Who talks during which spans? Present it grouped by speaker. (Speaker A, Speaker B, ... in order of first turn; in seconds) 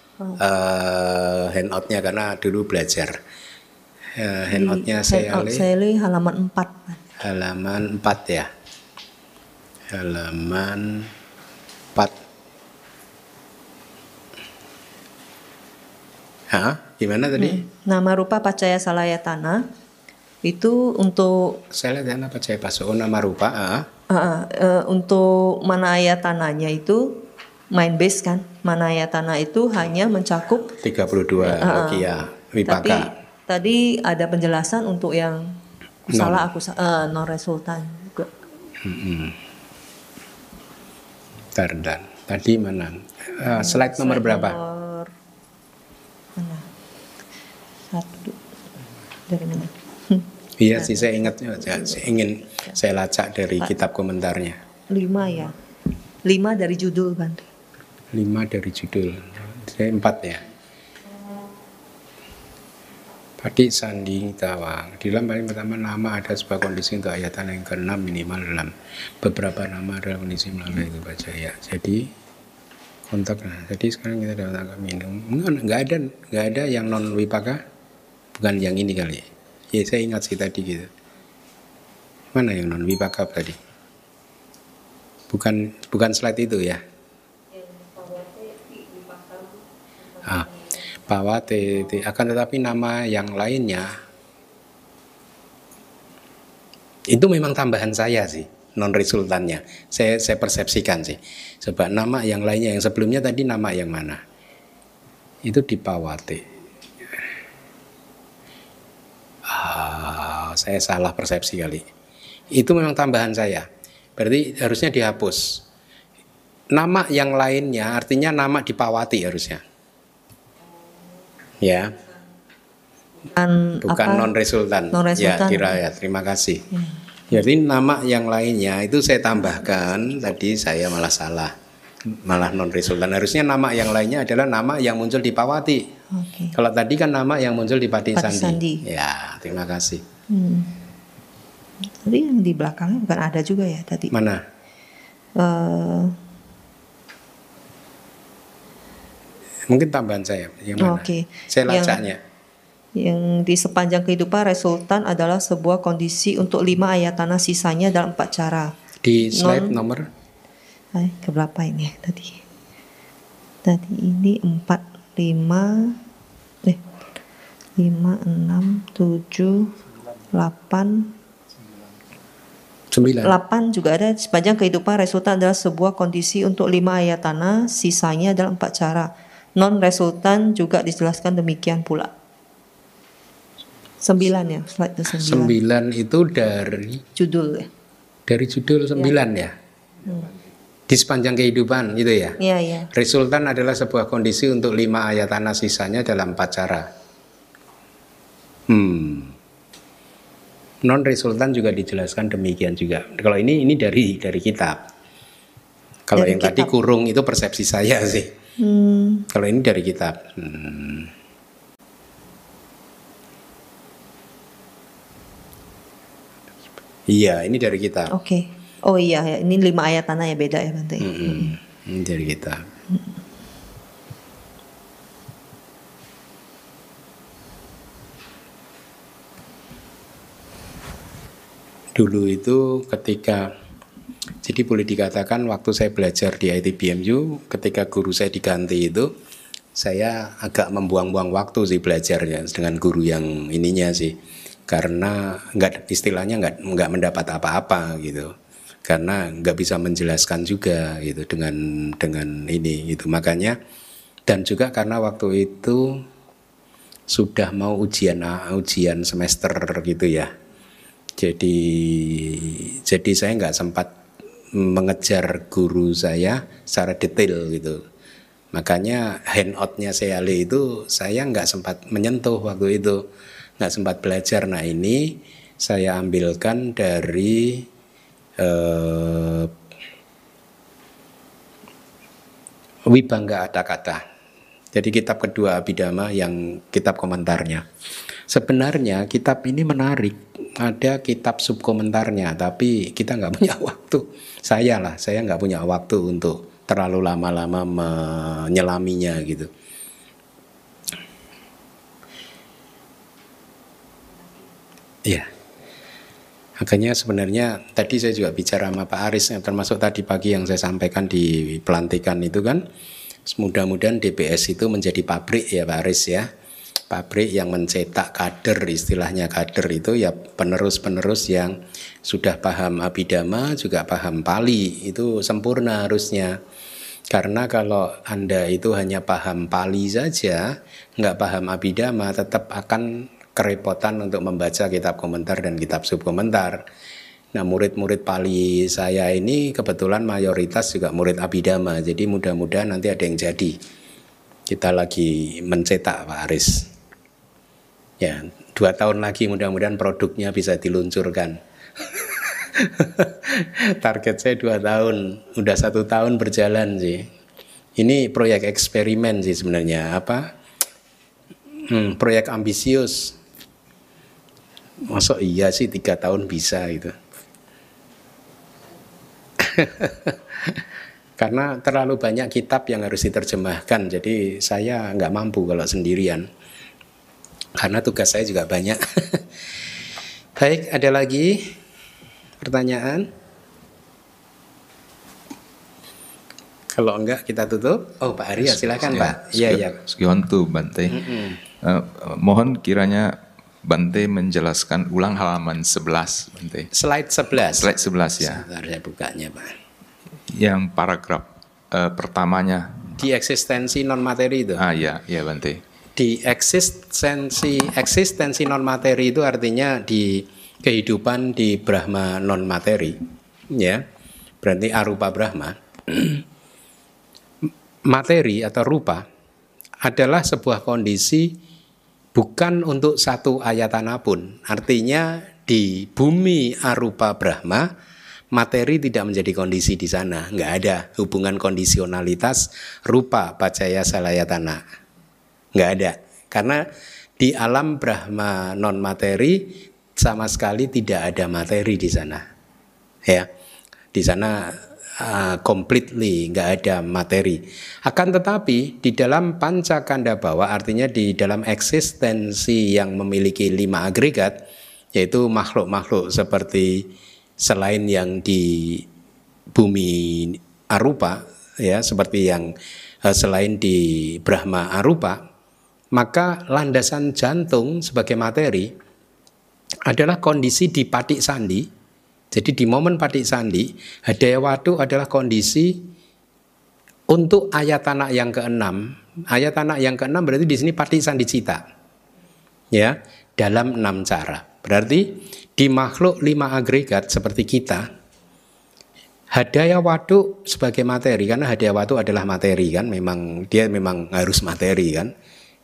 Speaker A: 0.4-3.2, 4.2-5.7, 7.2-8.5, 9.9-11.1, 16.5-17.6, 21.7-23.9, 30.8-33.1, 36.1-36.5, 38.8-39.4, 41.5-44.6, 50.6-54.6, 58.1-60.4, 63.4-72.1, 73.1-77.6, 78.4-80.9, 82.3-83.6, 85.3-86.8, 91.1-93.9, 97.1-104.2, 105.5-106.4, 109.5-111.8, 112.5-115.6, 116.7-119.6, 121.6-122.0, 123.8-126.7, 127.3-131.5, 132.1-135.8, 136.5-140.0, 144.1-144.4, 149.7-152.2, 159.0-160.1, 172.9-173.4, 185.1-187.0, 188.3-189.5, 190.9-192.4, 192.9-196.9, 198.7-199.4, 200.8-204.8, 206.1-208.3, 209.3-211.1, 217.1-218.1, 221.0-222.7, 232.0-233.5, 234.4-239.1, 239.8-244.2, 244.7-248.3, 248.9-253.6, 254.3-256.0, 257.1-260.3, 261.2-263.9, 264.5-267.8, 268.5-273.0, 273.6-277.7, 278.4-279.5, 282.9-284.0, 284.7-287.6, 288.3-299.5, 306.6-312.6, 313.3-316.3, 316.9-326.4, 327.1-336.6, 337.4-343.6, 344.5-346.7, 348.0-351.4, 351.9-357.1, 357.8-360.3, 361.7-363.2, 364.9-367.0, 369.4-370.6, 371.2-376.3, 377.6-379.2, 380.4-381.5, 382.4-383.1, 386.7-389.8, 396.7-399.5, 403.0-404.6, 406.0-413.0, 413.5-413.8, 414.4-416.2, 417.9-419.1, 419.8-421.3, 422.1-427.7, 428.3-434.6, 435.6-436.6, 437.2-442.2, 443.9-454.4, 455.0-456.9, 457.4-458.9, 459.6-462.5, 463.1-465.2, 465.9-468.7, 469.9-471.6, 472.3-475.8, 477.1-481.6, 482.7-487.9, 489.3-495.1
Speaker B: 4.5-7.0, 17.4-19.6, 20.4-21.6, 24.1-27.2, 27.7-30.8, 31.6-32.0, 32.7-35.5, 36.1-38.3, 43.4-45.1, 46.4-46.7, 47.9-48.4, 49.3-52.1, 54.9-55.5, 56.2-57.5, 87.5-91.9, 123.3-124.3, 124.9-125.8, 136.1-136.5, 138.2-138.8, 140.3-140.8, 141.8-144.1, 145.4-146.2, 150.8-152.0, 152.9-158.7, 159.3-159.8, 160.9-162.4, 163.6-166.0, 167.8-169.8, 170.3-171.1, 173.2-182.1, 184.0-185.6, 187.2-187.7, 192.4-192.9, 206.2-206.7, 208.6-209.3, 218.1-221.5
Speaker C: 388.7-396.7, 397.5-398.4, 400.3-402.9, 404.6-405.6